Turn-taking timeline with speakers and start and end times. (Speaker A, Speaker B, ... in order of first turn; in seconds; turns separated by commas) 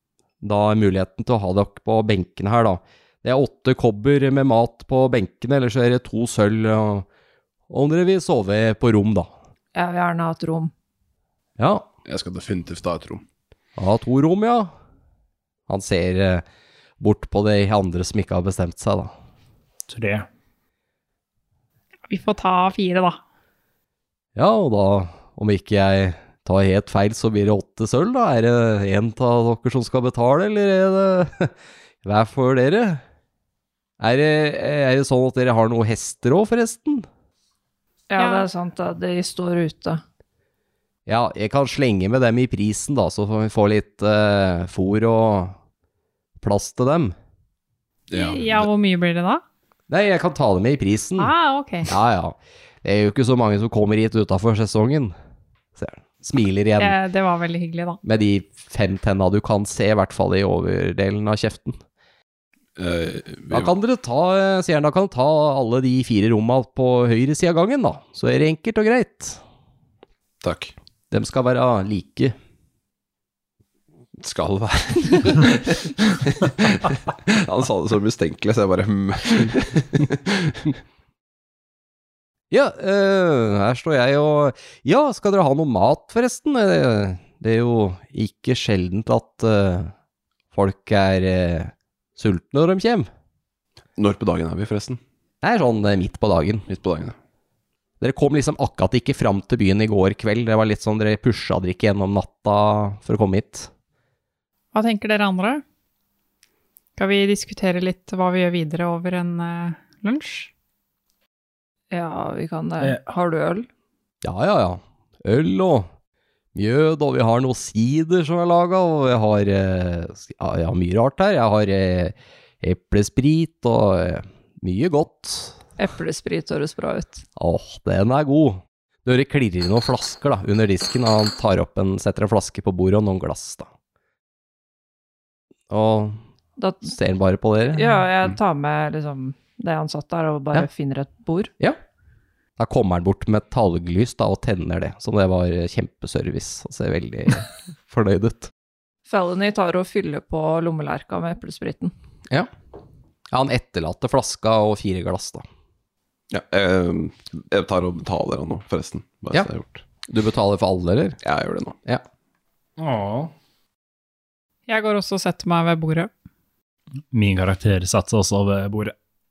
Speaker A: 0.4-7.0, Speaker A: 7.7-9.3, Speaker B: 9.7-10.7, Speaker A: 11.6-11.8, Speaker C: 12.0-13.2, Speaker A: 13.8-14.7, Speaker A: 15.7-16.4, Speaker A: 17.0-19.1, Speaker D: 19.9-20.3, Speaker E: 22.1-23.2, Speaker A: 24.4-33.0, Speaker A: 34.0-37.1, Speaker B: 38.1-40.0, Speaker E: 38.2-38.5, Speaker A: 41.1-45.6, Speaker A: 46.4-47.1, Speaker C: 48.1-48.7, Speaker E: 48.1-49.4, Speaker A: 49.9-51.3, Speaker E: 51.2-51.9, Speaker A: 51.8-55.1, Speaker A: 55.8-57.0, Speaker E: 56.8-58.0, Speaker A: 58.0-61.8, Speaker C: 62.8-63.7, Speaker A: 63.5-69.4, Speaker C: 70.4-70.7, Speaker A: 71.1-72.3, Speaker C: 74.2-80.8, Speaker A: 82.5-89.9, Speaker A: 90.5-93.1, Speaker C: 94.0-95.0, Speaker A: 95.4-96.7, Speaker C: 96.7-97.1, Speaker A: 98.0-103.7, Speaker E: 104.7-105.6, Speaker E: 107.0-110.5, Speaker B: 111.9-113.7, Speaker A: 114.2-115.9, Speaker A: 116.5-125.6, Speaker B: 125.8-127.2, Speaker A: 127.3-133.7, Speaker A: 135.7-136.2, Speaker B: 136.6-136.9, Speaker A: 136.8-138.1, Speaker B: 137.7-141.5, Speaker A: 142.6-148.5, Speaker B: 149.1-151.9, Speaker A: 153.3-155.4, Speaker C: 156.3-159.8, Speaker A: 160.0-161.2, Speaker C: 161.2-161.8, Speaker D: 162.8-163.3, Speaker E: 164.7-166.1, Speaker D: 167.1-168.9